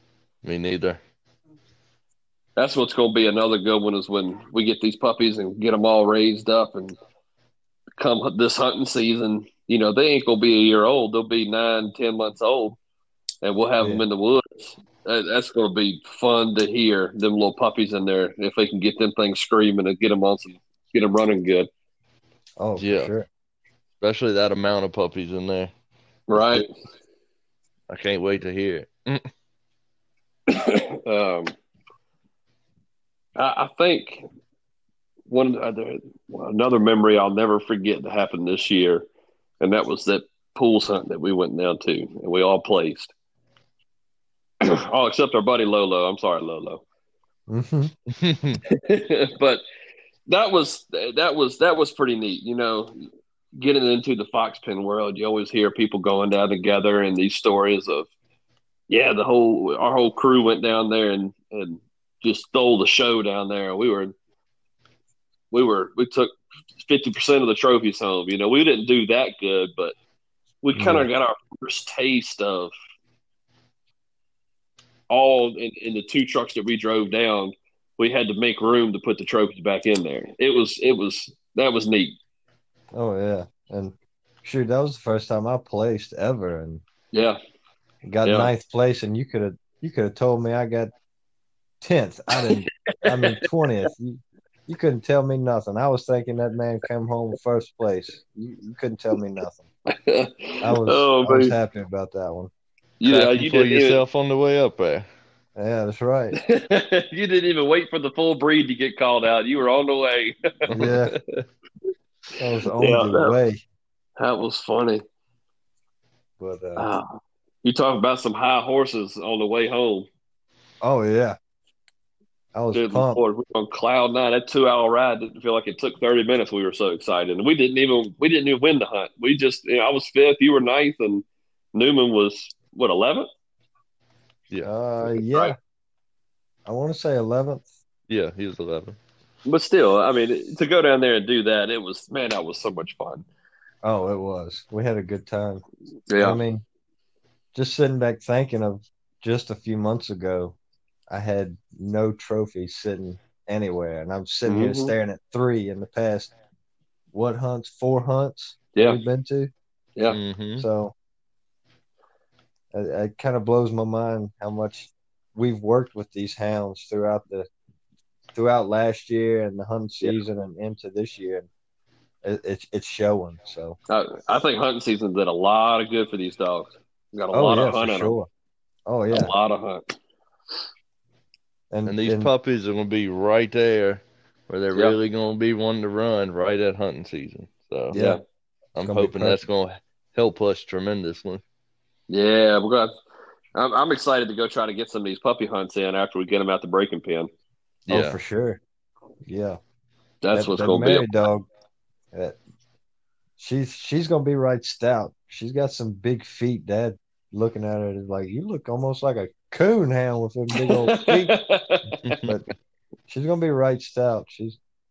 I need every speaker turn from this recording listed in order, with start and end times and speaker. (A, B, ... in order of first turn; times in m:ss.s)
0:00.4-0:01.0 A
0:02.6-0:07.0 B
0:08.0-0:12.8 B
0:13.4-0:21.7 B
0:22.6-0:23.3 C
0:22.8-0:23.1 A
0:24.0-0:25.7 A
0:26.3-0:26.7 B
0:26.3-0:26.6 A
0:27.9-0:29.3 A
0:30.5-0:31.5 B
0:33.4-0:34.2 B
0:35.3-0:39.0 B
0:39.6-0:43.1 B
0:44.6-0:46.8 B
0:47.5-0:47.9 C
0:48.1-0:48.6 A
0:48.7-0:49.6 B
0:50.3-0:58.1 B
0:58.9-1:04.1 B
1:05.5-1:09.9 B
1:10.6-1:12.7 B
1:10.7-1:11.1 C
1:15.1-1:22.2 B
1:22.9-1:26.8 C
1:27.1-1:27.4 B
1:28.0-1:30.9 C
1:28.2-1:28.5 B
1:31.8-1:39.6 C
1:32.4-1:33.3 B
1:39.9-1:41.5 B
1:40.6-1:42.5 C
1:43.0-1:44.0 B
1:43.0-1:45.1 A
1:45.6-1:46.4 C
1:46.4-1:51.0 B
1:50.7-1:51.0 A
1:50.7-1:51.1 C
1:52.4-1:53.6 C
1:52.8-1:53.3 B
1:54.2-1:55.0 B
1:56.4-1:56.9 C
1:56.8-1:57.1 B
1:57.6-2:00.1 B
2:00.8-2:01.4 C
2:02.5-2:03.2 C
2:02.7-2:13.3 B
2:14.6-2:15.6 C
2:16.6-2:17.7 C
2:18.1-2:19.0 A
2:19.4-2:23.2 B
2:23.8-2:25.6 C
2:26.1-2:26.4 B
2:26.2-2:26.6 C
2:27.5-2:30.6 C
2:31.1-2:36.3 C
2:34.4-2:34.9 B
2:37.1-2:39.5 C
2:38.7-2:39.0 B
2:40.1-2:40.6 A
2:40.6-2:40.9 C
2:42.7-2:47.5 C
2:48.3-2:51.5 C
2:52.2-2:53.8 C
2:53.9-2:58.2 B
2:57.3-2:58.3 C
2:58.9-2:59.3 C
2:59.1-2:59.9 B
3:01.7-3:02.3 C
3:01.9-3:08.0 A
3:04.7-3:05.0 B
3:07.9-3:08.2 C
3:07.9-3:08.2 B
3:08.7-3:11.4 A
3:08.8-3:09.4 C
3:12.1-3:12.9 B
3:13.5-3:17.3 B
3:17.9-3:18.2 A
3:17.9-3:18.6 C
3:19.2-3:19.6 C
3:20.2-3:21.1 B
3:20.3-3:21.4 C
3:22.1-3:22.4 C
3:23.4-3:31.4 C
3:30.7-3:32.2 B
3:32.0-3:32.4 A
3:33.1-3:34.6 C